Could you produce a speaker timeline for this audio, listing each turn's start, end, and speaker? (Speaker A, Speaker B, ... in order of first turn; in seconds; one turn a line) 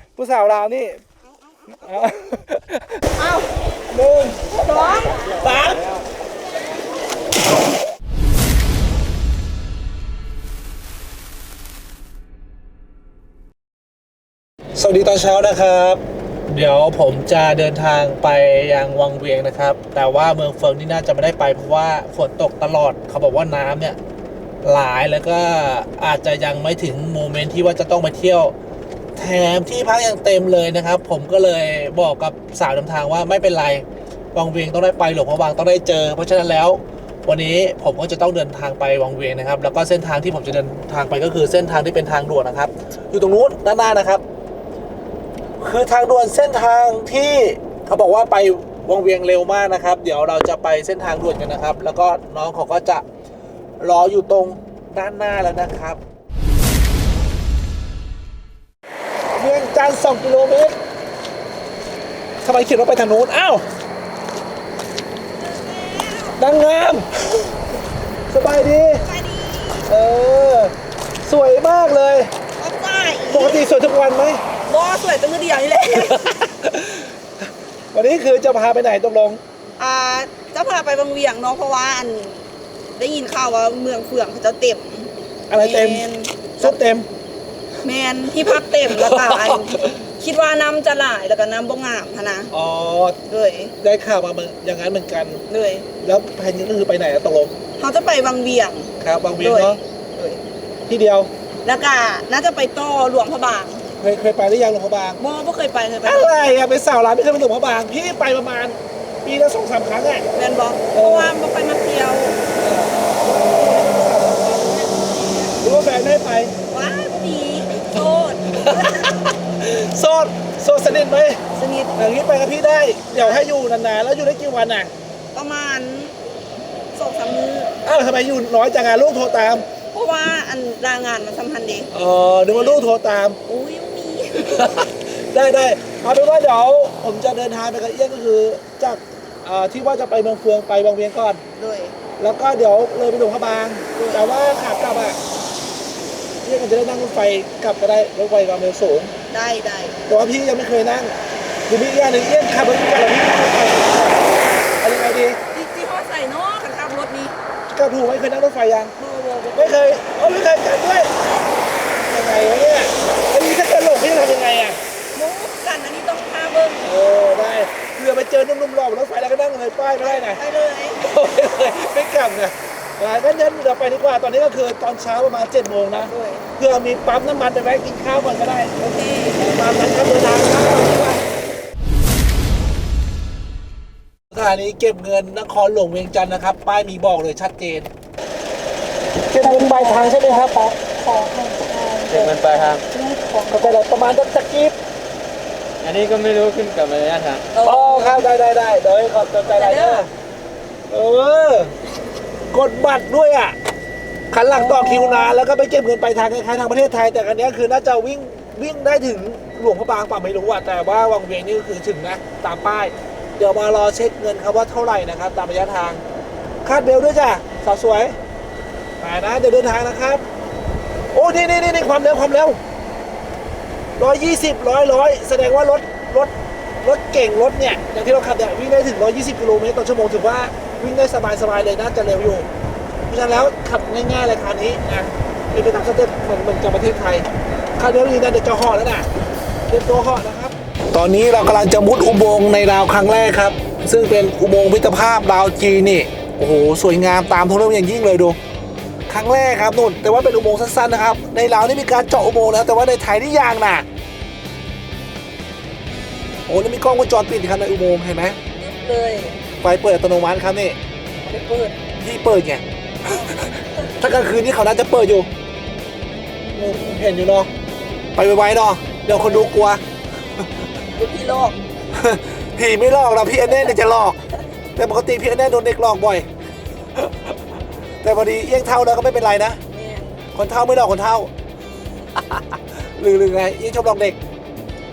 Speaker A: 0.2-1.0
Speaker A: 1.8-3.0
Speaker B: 3.2-3.5
Speaker A: 3.9-5.9
Speaker B: 4.6-5.2
Speaker A: 14.8-24.0
Speaker A: 24.6-28.6
Speaker A: 29.2-44.2
Speaker A: 45.6-53.0
Speaker A: 53.8-56.0
Speaker A: 59.4-60.8
Speaker A: 62.4-63.6
Speaker B: 65.4-66.4
Speaker A: 66.4-67.3
Speaker A: 68.3-69.0
Speaker B: 69.0-69.8
Speaker A: 69.9-70.7
Speaker A: 71.2-72.3
Speaker B: 72.6-73.6
Speaker A: 73.3-74.4
Speaker B: 74.7-76.3
Speaker A: 76.0-79.4
Speaker B: 79.8-82.4
Speaker B: 83.0-86.8
Speaker A: 85.5-86.0
Speaker A: 86.6-87.1
Speaker B: 87.8-92.5
Speaker A: 88.4-90.0
Speaker A: 92.5-93.2
Speaker B: 93.3-93.7
Speaker A: 93.8-95.4
Speaker B: 95.5-95.9
Speaker A: 96.0-97.6
Speaker B: 97.8-100.4
Speaker A: 99.0-99.8
Speaker A: 100.9-101.3
Speaker B: 101.6-103.8
Speaker A: 104.0-105.2
Speaker B: 105.2-106.5
Speaker A: 106.0-110.2
Speaker B: 110.3-112.4
Speaker A: 110.9-111.3
Speaker A: 112.6-114.8
Speaker B: 114.6-115.5
Speaker A: 115.6-116.5
Speaker B: 116.7-119.2
Speaker A: 118.5-121.4
Speaker B: 121.5-122.0
Speaker A: 122.0-124.9
Speaker B: 123.1-123.5
Speaker B: 125.3-126.1
Speaker B: 126.9-127.8
Speaker A: 127.8-129.7
Speaker B: 129.9-131.9
Speaker A: 131.9-133.4
Speaker B: 132.5-132.9
Speaker B: 133.5-134.7
Speaker A: 134.4-141.4
Speaker B: 141.6-142.0
Speaker A: 142.2-145.2
Speaker B: 143.9-144.3
Speaker A: 146.4-149.1
Speaker B: 149.3-150.0
Speaker A: 150.1-151.2
Speaker A: 151.7-155.4
Speaker B: 155.5-157.4
Speaker A: 157.7-158.9
Speaker B: 159.0-159.9
Speaker A: 159.5-161.1
Speaker A: 162.1-164.8
Speaker B: 165.1-166.9
Speaker A: 166.8-170.4
Speaker B: 170.0-171.0
Speaker A: 171.0-178.8
Speaker B: 175.9-176.4
Speaker B: 178.8-179.4
Speaker A: 179.3-181.2
Speaker A: 184.3-187.9
Speaker A: 189.3-190.8
Speaker B: 189.4-192.3
Speaker C: 192.1-192.8
Speaker B: 192.9-193.8
Speaker A: 193.5-194.8
Speaker C: 195.8-197.5
Speaker B: 197.5-198.2
Speaker A: 197.6-200.1
Speaker B: 199.5-200.1
Speaker A: 200.9-201.7
Speaker A: 202.5-203.6
Speaker A: 204.3-216.0
Speaker B: 204.5-205.4
Speaker A: 216.6-218.2
Speaker A: 219.0-220.2
Speaker A: 221.1-222.6
Speaker A: 224.0-226.3
Speaker A: 226.8-232.5
Speaker A: 233.1-239.1
Speaker A: 239.7-248.4
Speaker A: 249.1-253.8
Speaker A: 256.5-258.4
Speaker B: 258.6-259.4
Speaker A: 259.6-260.8
Speaker B: 261.2-261.8
Speaker A: 262.0-265.3
Speaker A: 266.5-267.5
Speaker A: 268.1-269.8
Speaker B: 270.9-271.6
Speaker A: 271.9-274.2
Speaker A: 274.8-276.2
Speaker A: 276.9-277.4
Speaker A: 278.0-279.6
Speaker B: 279.7-280.2
Speaker A: 280.3-281.3
Speaker A: 282.2-284.2